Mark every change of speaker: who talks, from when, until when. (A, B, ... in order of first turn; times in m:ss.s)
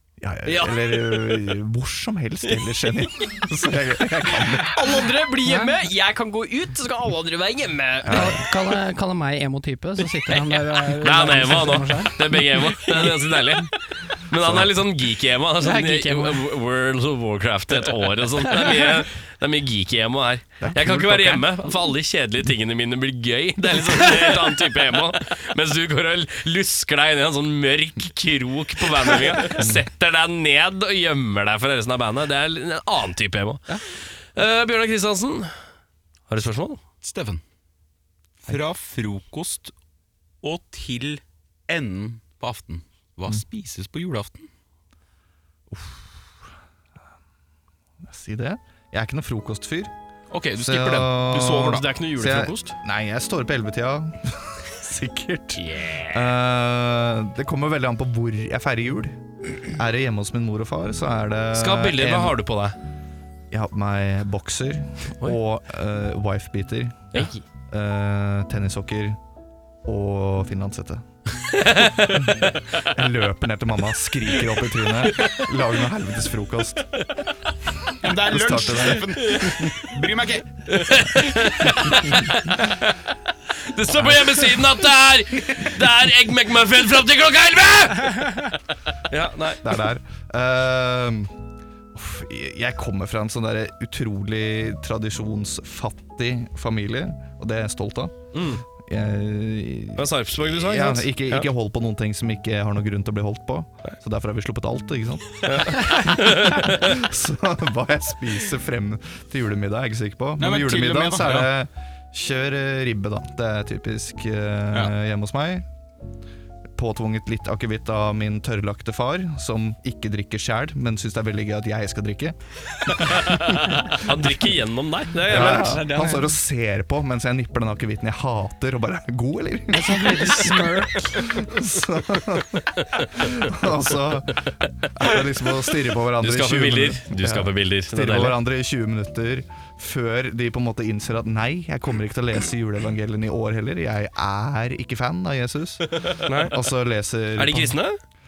0:00.2-0:05.1 A
0:00.4-0:01.4 B
0:04.7-0:08.4 B
0:05.4-0:05.8 C
0:08.0-0:08.4 A
0:08.1-0:12.4 C
0:11.0-0:35.5 D
0:14.3-0:14.7 A
0:15.6-0:16.4 C
0:20.6-0:21.4 A
0:29.6-0:29.8 A
0:36.3-0:36.8 D
0:37.0-0:37.4 E
0:38.4-0:39.7 E
0:40.4-0:44.5 E
0:45.7-0:46.1 A
0:48.1-0:49.9 A
0:50.3-0:51.9 E
0:50.6-1:02.4 A
0:51.8-0:52.5 D
0:51.9-0:52.7 B
0:55.6-0:56.2 B
1:01.5-1:02.8 D
1:03.5-1:07.1 A
1:07.1-1:07.4 B
1:07.7-1:09.2 A
1:09.8-1:11.0 A
1:11.8-1:12.1 D
1:11.8-1:17.0 A
1:18.0-1:20.7 E
1:18.2-1:19.7 A
1:20.7-1:22.9 D
1:23.6-1:28.5 D
1:29.1-1:29.6 D
1:29.6-1:31.3 A
1:31.9-1:38.2 A
1:38.3-1:38.6 D
1:38.8-1:55.7 A
1:40.0-1:41.5 D
1:45.4-1:46.9 D
1:50.4-1:51.5 E
1:56.8-2:03.9 A
2:03.0-2:05.9 D
2:05.2-2:27.8 A
2:05.6-2:06.2 C
2:09.7-2:11.2 C
2:16.2-2:18.4 D
2:26.1-2:26.6 D
2:27.4-2:28.0 D